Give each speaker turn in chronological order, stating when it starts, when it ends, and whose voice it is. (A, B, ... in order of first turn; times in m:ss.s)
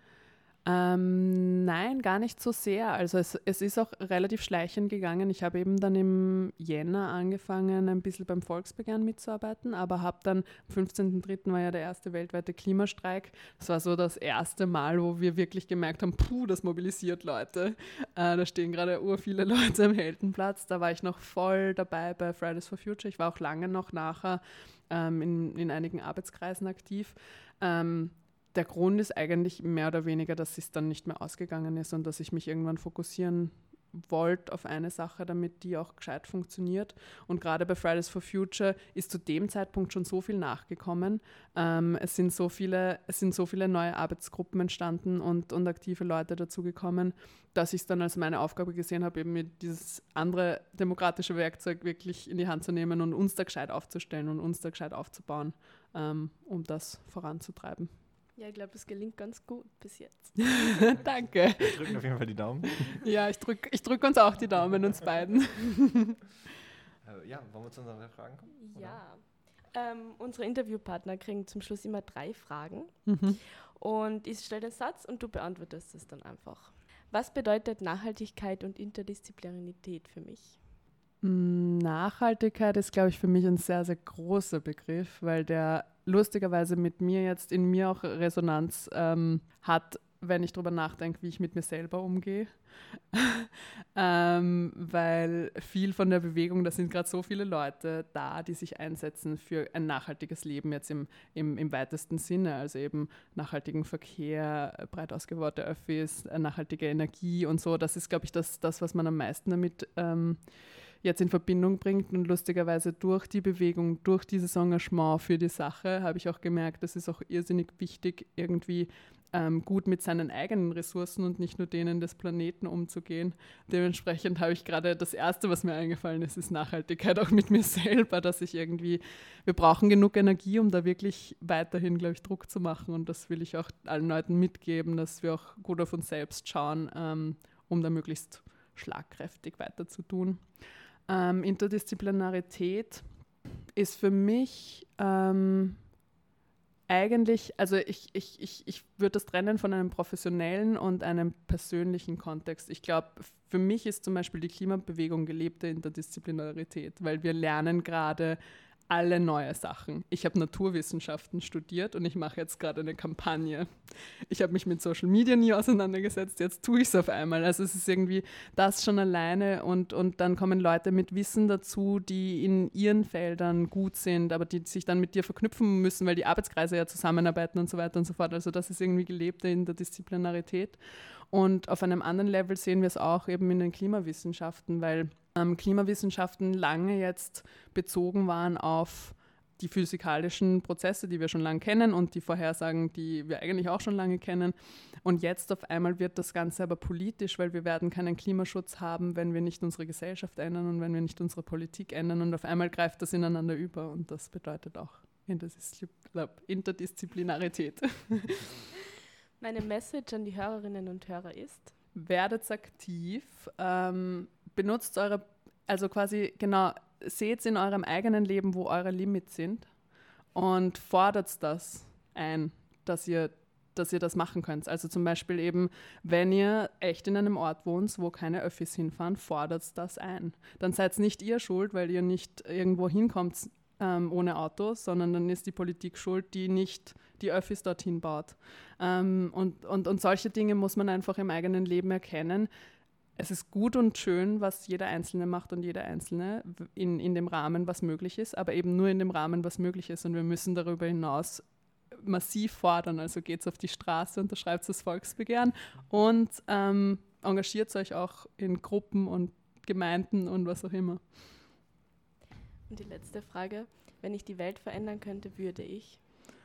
0:00.6-0:57.9 A
0:58.4-1:00.9 B
1:00.8-1:01.9 A
1:01.0-1:03.0 C
1:02.8-1:06.2 A
1:07.0-1:09.0 C
1:08.6-1:20.7 B
1:13.1-1:13.4 A
1:21.2-1:50.4 A
1:51.0-2:20.5 A
2:21.1-2:23.1 A
2:23.8-2:25.8 A
2:26.9-3:00.8 A
3:01.3-3:28.5 A
3:29.4-3:31.8 B
3:31.9-3:39.7 A
3:40.4-4:02.5 A
4:03.2-4:11.5 A
4:12.0-4:21.0 A
4:22.7-4:26.0 B